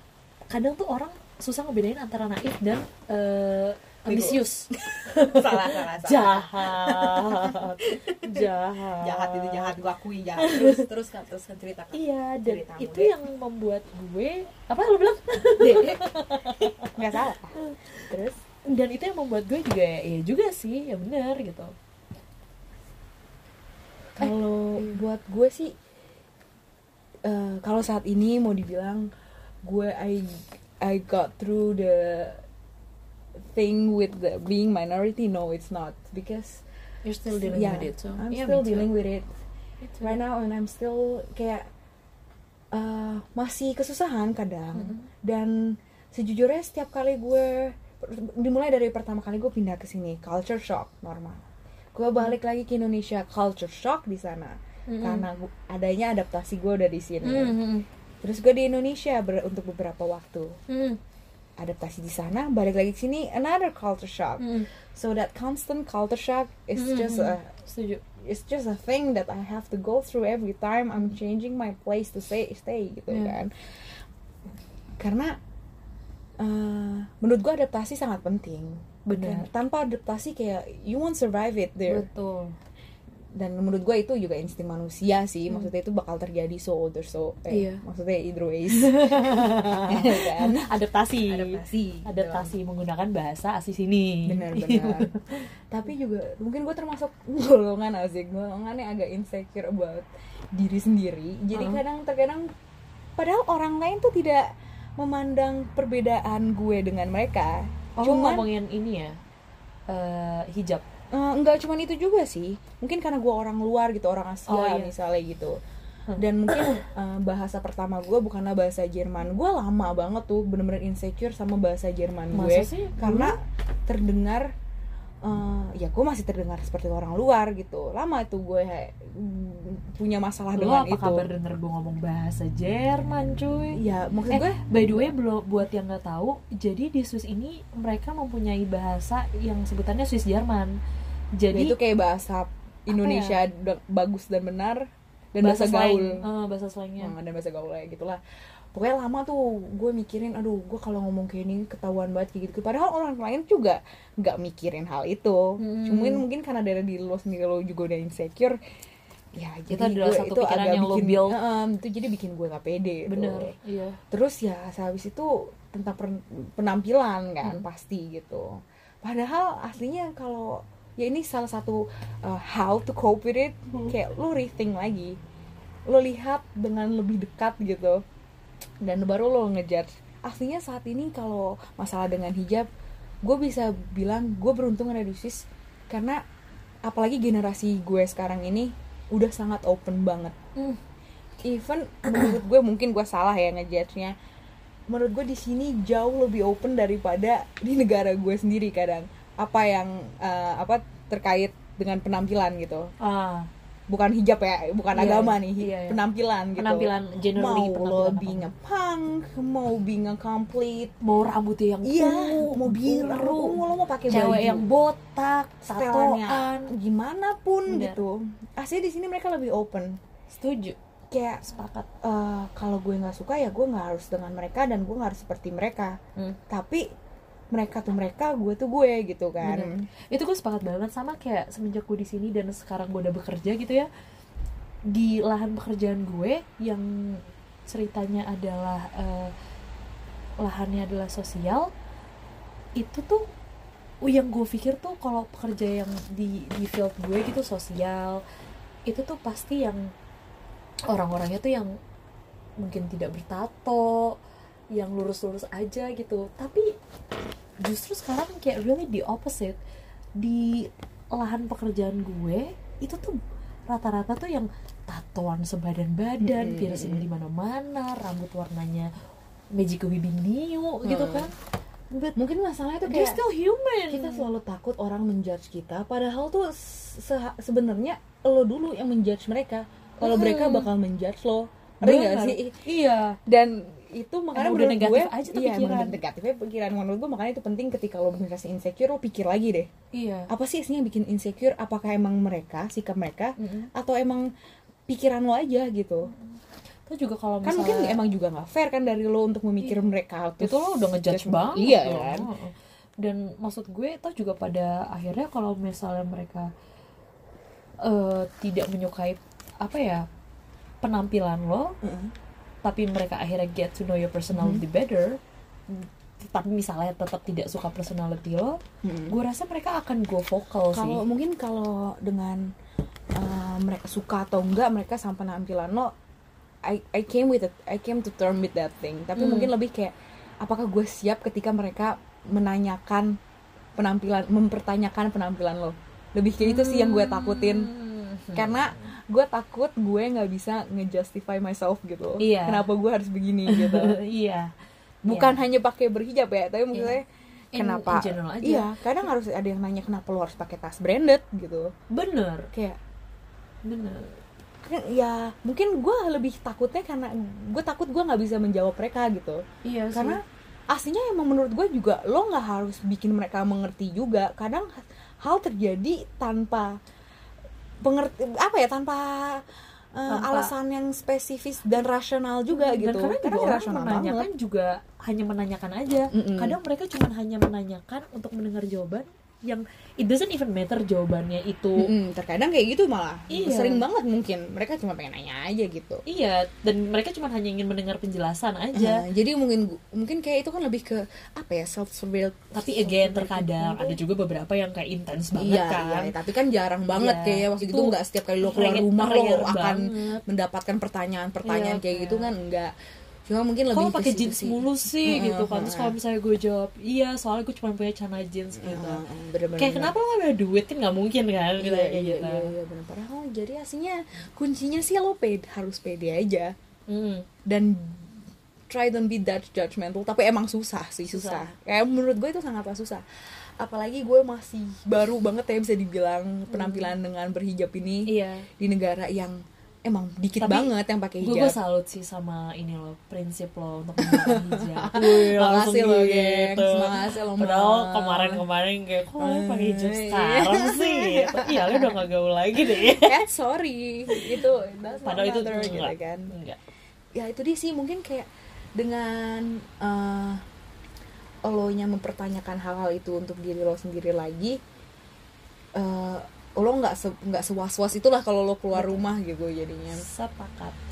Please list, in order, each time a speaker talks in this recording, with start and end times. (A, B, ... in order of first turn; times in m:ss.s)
0:00.5-0:09.7 A
0:04.1-0:08.4 B
0:09.0-0:13.2 B
0:10.4-0:10.8 A
0:11.9-0:16.9 A
0:15.6-0:16.0 B
0:16.6-0:18.4 B
0:18.7-0:21.7 A
0:24.2-0:25.7 B
0:24.2-0:25.0 A
0:27.2-0:29.1 B
0:29.6-0:32.4 B
0:33.5-0:36.6 B
0:37.0-0:38.9 A
0:37.3-0:39.3 B
0:39.8-0:40.2 A
0:40.0-0:41.7 B
0:42.7-0:51.4 B
0:44.8-0:45.1 A
0:51.9-0:57.6 B
0:54.9-0:55.2 A
0:57.2-0:57.8 A
0:58.2-1:00.6 B
1:00.7-1:01.0 A
1:01.6-1:07.5 B
1:04.4-1:04.7 A
1:06.8-1:08.0 A
1:08.2-1:13.5 B
1:13.1-1:13.4 A
1:15.0-1:15.4 B
1:16.4-1:22.1 B
1:19.1-1:19.5 A
1:21.9-1:22.6 A
1:23.3-1:30.7 B
1:27.5-1:27.8 A
1:28.7-1:35.4 A
1:31.2-1:32.5 B
1:34.2-1:35.1 B
1:35.7-1:42.4 B
1:41.5-1:41.8 A
1:43.2-1:44.4 B
1:45.0-1:48.5 B
1:48.0-1:49.2 A
1:49.9-1:50.8 A
1:51.1-1:55.6 B
1:54.5-1:54.9 A
1:56.1-1:56.8 A
1:56.2-2:04.5 B
2:02.3-2:03.3 A
2:05.2-2:11.3 B
2:10.6-2:20.8 A
2:13.7-2:15.1 B
2:21.4-2:21.8 A
2:21.5-2:26.2 B
2:22.9-2:23.4 A
2:25.4-2:27.1 A
2:27.0-2:28.2 B
2:28.7-2:38.6 B
2:35.6-2:36.2 A
2:39.4-2:43.6 B
2:39.7-2:41.4 A
2:43.1-2:44.0 A
2:44.1-2:55.2 B
2:55.9-2:58.0 B
2:58.8-3:02.7 B
3:03.2-3:06.2 B
3:06.8-3:10.3 B
3:11.4-3:14.1 B
3:12.1-3:12.4 A
3:14.9-3:22.9 B
3:23.0-3:23.5 A
3:23.9-3:30.9 B
3:24.9-3:26.0 A
3:26.6-3:28.5 A
3:31.0-3:33.6 A
3:31.8-3:34.7 B
3:34.1-3:36.7 A
3:35.7-3:40.0 B
3:37.7-3:38.0 A
3:40.3-3:40.8 A
3:41.1-3:41.4 B
3:41.4-3:41.9 A
3:42.0-3:46.0 B
3:46.5-3:46.8 B
3:47.5-3:49.9 B
3:49.4-3:53.9 A
3:54.9-3:59.3 A
4:00.4-4:01.7 A
4:02.8-4:03.2 A
4:04.0-4:08.2 A
4:08.9-4:09.9 A
4:10.9-4:11.7 A
4:12.6-4:14.2 A
4:14.7-4:16.7 A
4:17.6-4:19.6 A
4:20.2-4:23.2 A
4:23.7-4:28.9 A
4:26.2-4:27.1 B
4:29.5-4:31.3 A
4:30.8-4:31.3 B
4:32.2-4:33.2 B
4:32.9-4:34.3 A
4:33.9-4:42.6 B
4:40.0-4:40.7 A
4:41.8-4:43.2 A
4:43.2-4:49.7 B
4:44.4-4:46.0 A
4:49.9-4:50.3 A
4:50.3-4:54.3 B
4:53.4-4:53.7 A
4:54.9-4:56.1 B
4:56.9-4:58.0 A
4:57.4-5:02.3 B
5:00.4-5:06.5 A
5:07.8-5:10.0 A
5:10.8-5:11.7 A
5:11.8-5:12.1 B
5:12.6-5:15.2 A
5:14.3-5:14.6 B
5:15.7-5:21.0 A
5:18.8-5:19.2 B
5:20.7-5:22.4 B
5:23.2-5:25.9 B
5:26.6-5:33.1 B
5:29.2-5:29.5 A
5:33.8-5:37.7 B
5:36.4-5:38.7 A
5:38.4-5:44.0 B
5:42.2-5:42.7 A
5:43.5-5:44.5 A
5:45.0-5:51.7 B
5:45.1-5:45.4 A
5:46.7-5:47.0 A
5:47.5-5:49.0 A
5:51.9-5:52.5 A
5:52.5-5:52.8 B
5:53.6-5:54.1 A
5:54.6-6:00.2 B
5:59.6-6:00.2 A
6:00.7-6:06.7 B
6:07.8-6:09.4 B
6:09.9-6:14.3 B
6:10.1-6:10.5 A
6:12.5-6:21.9 A
6:16.1-6:16.6 B
6:21.8-6:26.0 B
6:23.3-6:23.9 A
6:26.1-6:29.0 A
6:28.8-6:34.0 B
6:32.5-6:36.1 A
6:35.3-6:42.7 B
6:36.9-6:40.2 A
6:41.4-6:42.3 A
6:43.3-6:45.9 B
6:43.7-6:49.0 A
6:48.6-6:49.9 B
6:49.6-6:52.5 A
6:51.6-6:56.5 B
6:56.9-6:57.2 A
6:57.5-6:58.2 B
6:58.7-7:03.0 B
7:01.1-7:01.5 A
7:03.6-7:08.1 B
7:06.5-7:06.9 A
7:08.1-7:08.5 A
7:08.6-7:11.6 B
7:10.4-7:23.2 A
7:14.0-7:18.4 B
7:19.2-7:22.0 B
7:22.6-7:26.3 B
7:24.1-7:24.4 A
7:25.0-7:26.6 A
7:27.1-7:30.4 B
7:31.4-7:34.6 B
7:35.8-7:40.0 B
7:38.7-7:39.0 A
7:39.9-7:40.8 A